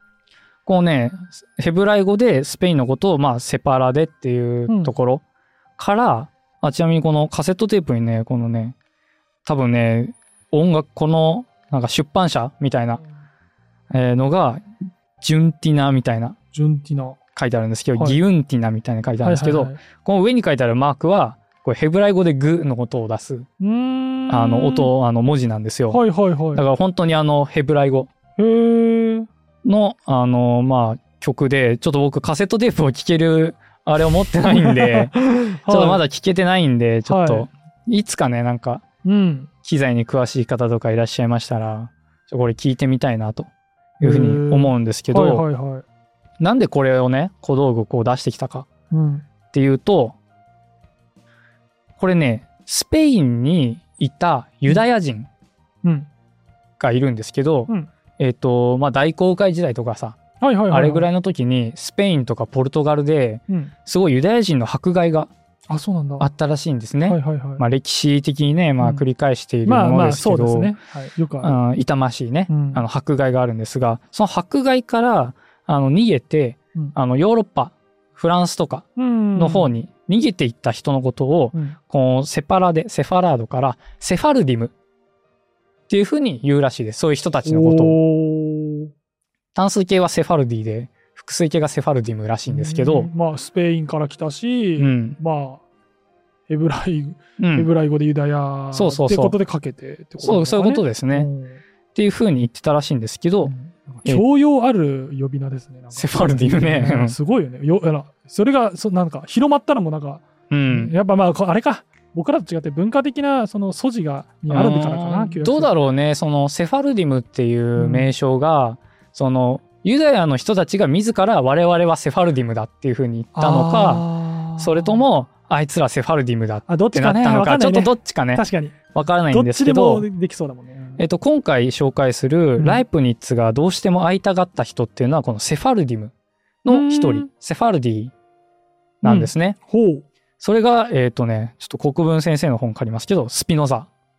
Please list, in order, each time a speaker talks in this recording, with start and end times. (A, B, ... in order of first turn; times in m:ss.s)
0:00.7-0:05.2 A
0:04.7-0:04.9 B
0:05.8-0:08.8 A
0:09.5-0:13.0 A
0:13.9-0:14.6 A
0:15.2-0:16.4 A
0:16.5-0:17.2 B
0:17.4-0:23.5 A
0:19.2-0:19.8 B
0:23.6-0:24.9 B
0:24.3-0:26.0 A
0:25.9-0:26.6 B
0:26.5-0:28.1 A
0:28.4-0:29.3 B
0:29.6-0:38.8 A
0:34.5-0:36.0 B
0:37.1-0:37.5 B
0:39.0-0:39.5 B
0:39.6-0:45.4 A
0:44.0-0:45.8 B
0:46.4-0:48.7 A
0:48.9-0:49.3 B
0:49.5-0:50.2 A
0:52.0-0:55.3 A
0:55.8-0:56.1 B
0:56.8-1:00.2 A
1:00.4-1:01.1 B
1:00.7-1:05.3 A
1:05.7-1:06.3 B
1:06.2-1:10.7 A
1:07.1-1:07.6 B
1:09.6-1:11.6 B
1:11.4-1:24.7 A
1:12.5-1:12.8 B
1:19.0-1:19.7 B
1:25.9-1:28.0 A
1:27.4-1:28.9 B
1:29.6-1:33.1 A
1:32.5-1:35.6 B
1:34.8-1:35.2 A
1:36.5-1:41.6 B
1:37.4-1:37.7 A
1:38.7-1:39.4 A
1:40.2-1:41.3 A
1:42.0-1:43.5 A
1:43.4-1:55.7 B
1:46.0-1:47.2 A
1:50.5-1:50.9 A
1:54.5-2:10.1 A
1:57.8-1:58.1 B
2:03.4-2:05.0 B
2:06.7-2:08.8 B
2:09.3-2:11.0 B
2:11.0-2:16.1 A
2:16.6-2:18.1 A
2:16.7-2:17.3 B
2:19.0-2:19.6 A
2:19.0-2:20.0 B
2:20.4-2:23.9 A